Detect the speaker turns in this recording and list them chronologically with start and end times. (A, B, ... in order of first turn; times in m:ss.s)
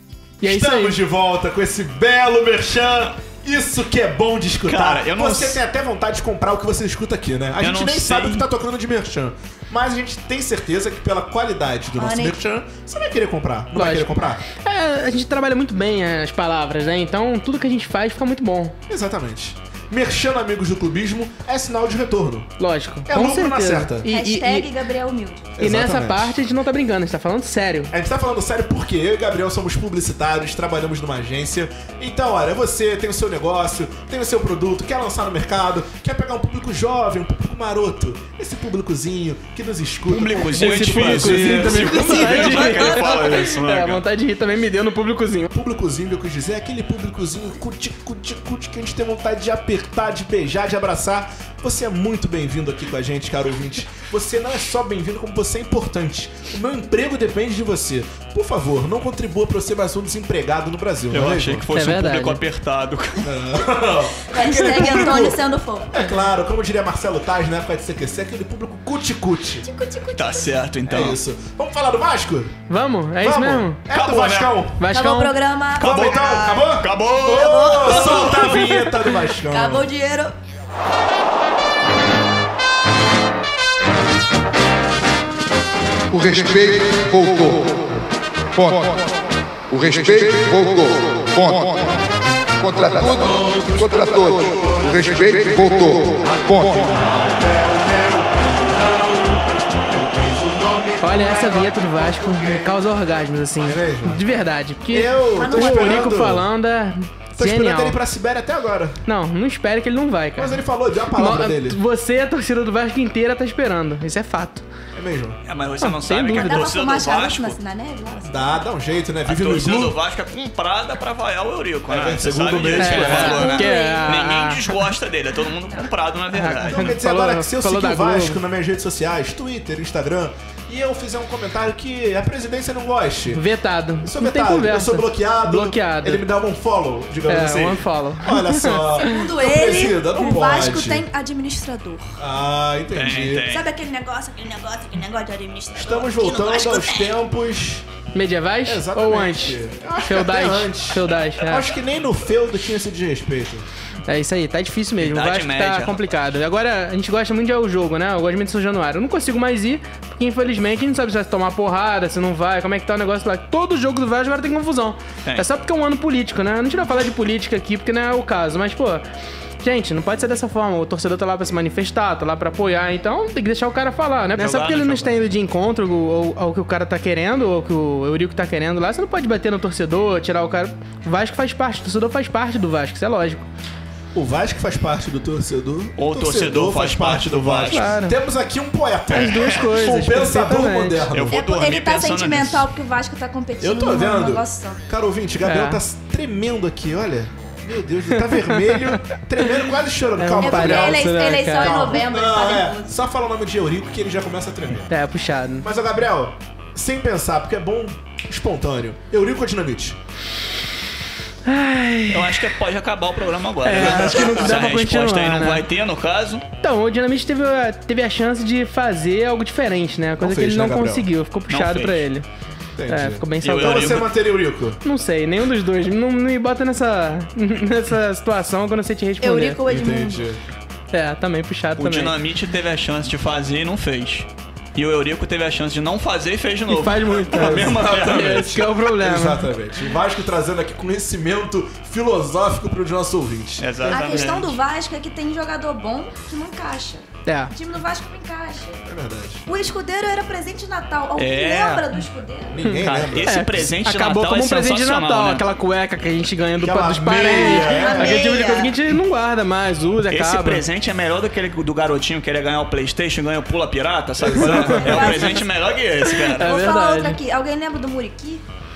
0:00.4-0:01.0 A
0:00.4-0:14.4 B
0:04.6-0:05.6 C
0:07.6-0:08.4 C
0:11.9-0:12.3 D
0:13.7-0:18.8 A
0:18.9-0:22.5 B
0:22.6-0:24.7 A
0:23.0-0:24.1 B
0:24.0-0:25.5 D
0:25.6-0:26.3 B
0:25.6-0:27.9 A
0:27.9-0:43.0 B
0:40.1-0:44.0 C
0:40.5-0:45.5 A
0:45.5-1:01.7 B
1:01.1-1:03.4 C
1:01.7-1:02.4 A
1:03.2-1:05.4 B
1:04.3-1:06.1 D
1:05.9-1:09.7 B
1:09.6-1:10.6 D
1:10.1-1:11.2 C
1:10.9-1:12.6 B
1:12.7-1:13.8 A
1:13.2-1:14.8 B
1:13.9-1:14.6 C
1:14.8-1:15.3 A
1:14.9-1:16.6 D
1:15.8-1:19.9 B
1:15.8-1:18.6 C
1:17.3-1:18.7 D
1:19.5-1:20.3 D
1:26.1-1:28.0 E
1:28.5-1:29.1 E
1:29.7-1:32.0 E
1:32.6-1:37.1 E
1:33.0-1:35.1 B
1:36.9-1:42.8 B
1:41.0-1:48.0 A
1:43.6-1:44.2 B
1:44.9-1:46.5 B
1:45.4-1:46.1 D
1:47.4-1:49.0 B
1:49.0-1:54.6 A
1:50.4-1:51.8 B
1:54.9-1:55.4 B
1:55.4-1:57.6 C
1:55.8-1:56.7 A
1:56.4-1:58.6 D
1:58.2-2:00.0 B
1:59.2-2:06.9 C
2:01.9-2:03.6 B
2:02.8-2:04.6 A
2:03.2-2:04.1 D
2:06.3-2:08.4 A
2:06.6-2:13.4 B
2:13.3-2:16.2 A
2:14.0-2:21.1 B
2:17.2-2:19.0 A
2:19.0-2:22.2 D
2:22.2-2:23.5 B
2:22.9-2:23.7 C
2:23.5-2:27.1 D
2:25.7-2:27.8 B
2:28.1-2:31.7 A
2:28.6-2:33.7 B
2:34.1-2:49.0 A
2:35.0-2:36.1 C
2:49.6-3:03.4 A
2:54.4-2:55.1 C
3:04.1-3:11.4 B
3:06.0-3:07.8 C
3:07.7-3:08.2 A
3:09.1-3:09.7 C
3:09.1-3:11.0 A
3:11.1-3:12.6 C
3:11.3-3:14.8 D
3:13.6-3:24.9 B
3:15.4-3:15.8 A
3:18.2-3:18.9 A
3:20.2-3:22.0 A
3:20.4-3:22.9 D
3:24.9-3:25.6 A
3:25.6-3:30.0 B
3:31.4-3:32.4 A
3:32.1-3:36.4 C
3:33.6-3:35.6 A
3:33.7-3:34.5 B
3:36.6-3:42.2 A
3:40.2-3:41.1 B
3:41.5-3:42.1 C
3:42.7-3:44.8 B
3:42.9-3:44.0 A
3:43.4-3:44.1 C
3:44.8-3:49.6 A
3:49.2-3:50.2 D
3:49.6-3:50.4 B
3:50.9-3:52.1 A
3:51.8-3:58.6 C
3:56.7-3:59.5 A
3:57.3-4:04.5 B
4:03.6-4:04.6 C
4:03.9-4:08.8 D
4:07.2-4:07.5 A
4:08.9-4:09.4 B
4:09.4-4:12.6 D
4:11.2-4:12.0 C
4:12.5-4:13.7 B
4:12.6-4:20.6 A
4:12.8-4:15.4 C
4:16.6-4:18.2 B
4:17.1-4:18.7 D
4:20.1-4:26.6 C
4:24.2-4:25.3 B
4:24.4-4:25.0 A
4:24.9-4:25.5 D
4:26.2-4:27.2 A
4:26.4-4:28.4 D